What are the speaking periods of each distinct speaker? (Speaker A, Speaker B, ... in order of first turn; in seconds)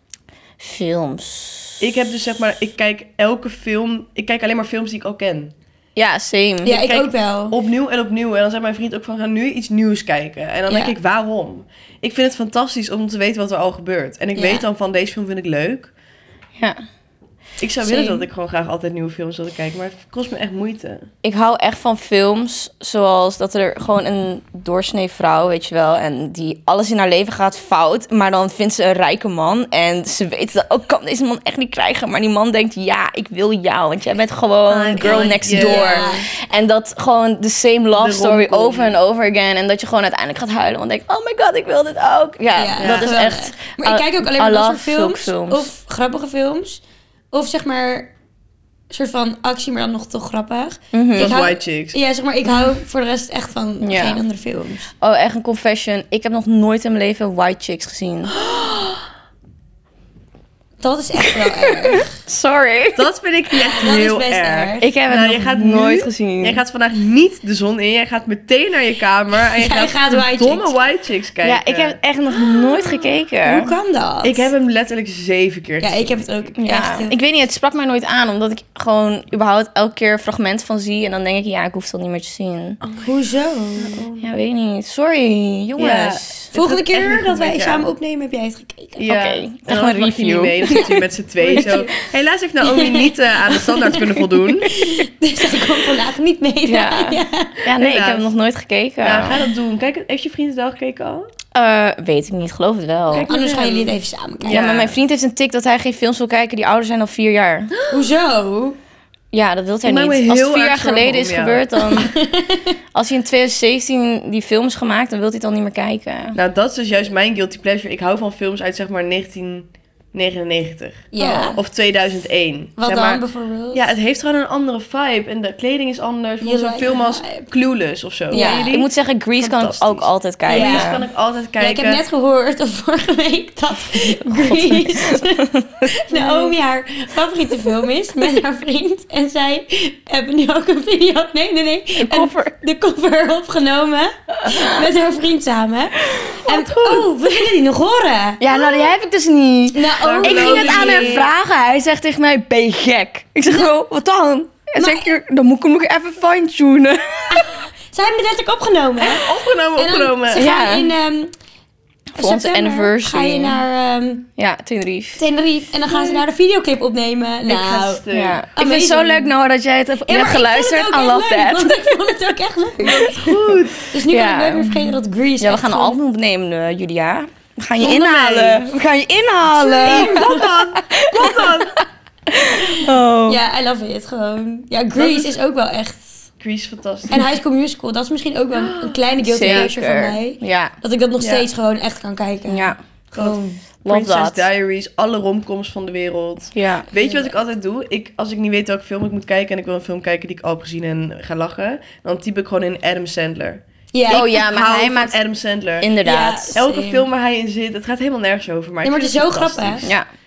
Speaker A: 0.6-1.8, 6.0-6.9, 21.2-45.7, 50.9-51.4, 53.8-54.2, 55.0-58.3, 61.5-63.1, 64.8-66.6, 71.4-73.7, 76.6-82.8, 84.2-86.5, 89.0-90.9, 96.7-99.4, 101.5-103.3, 104.5-107.7, 109.3-112.1, 112.9-116.3, 128.3-131.1, 133.9-135.9, 142.0-142.5, 144.4-144.8, 146.1-146.6, 148.4-157.5, 160.3-160.9, 162.1-163.6, 164.3-165.2, 168.1-172.1, 174.1-183.4, 189.2-190.7, 192.5-193.3, 193.8-194.4, 196.5-196.9, 204.1-205.2, 205.8-206.6
Speaker B: 1.8-5.5, 6.8-15.9, 17.6-21.1, 34.7-36.1, 37.9-38.9, 42.8-43.1, 51.1-52.0, 62.9-72.0, 74.2-76.2, 82.8-83.1, 83.8-84.3, 85.8-87.9, 89.0-94.7, 97.7-98.3, 99.0-101.3, 103.1-105.0, 107.7-108.1, 109.8-111.7, 116.3-132.0, 150.0-151.3, 159.0-160.4, 165.9-166.2, 167.4-168.4, 172.8-173.8, 177.8-178.6, 179.7-181.8, 185.0-185.3, 186.4-187.3, 188.5-189.7, 191.2-191.5, 193.2-205.9, 206.5-209.9
Speaker C: 6.6-7.6, 14.3-14.6, 17.9-18.1, 35.0-36.3, 42.5-48.1, 48.9-54.9, 60.8-62.1, 63.8-64.9, 69.6-70.7, 73.4-74.5, 75.8-77.2, 83.0-84.0, 86.5-89.0, 90.7-92.0, 92.6-94.0, 94.7-97.6, 103.3-104.7, 107.9-108.8, 111.9-112.7, 121.1-121.6, 122.8-123.9, 126.4-127.5, 128.3-128.7, 130.5-131.0, 131.6-148.4, 149.7-151.2, 154.8-155.1, 157.3-161.3, 162.2-164.3, 165.2-168.0, 168.6-169.3, 170.1-176.0, 179.6-180.6, 182.6-186.3, 187.1-193.6, 196.9-197.3, 203.9-204.3, 206.0-207.1, 208.8-209.9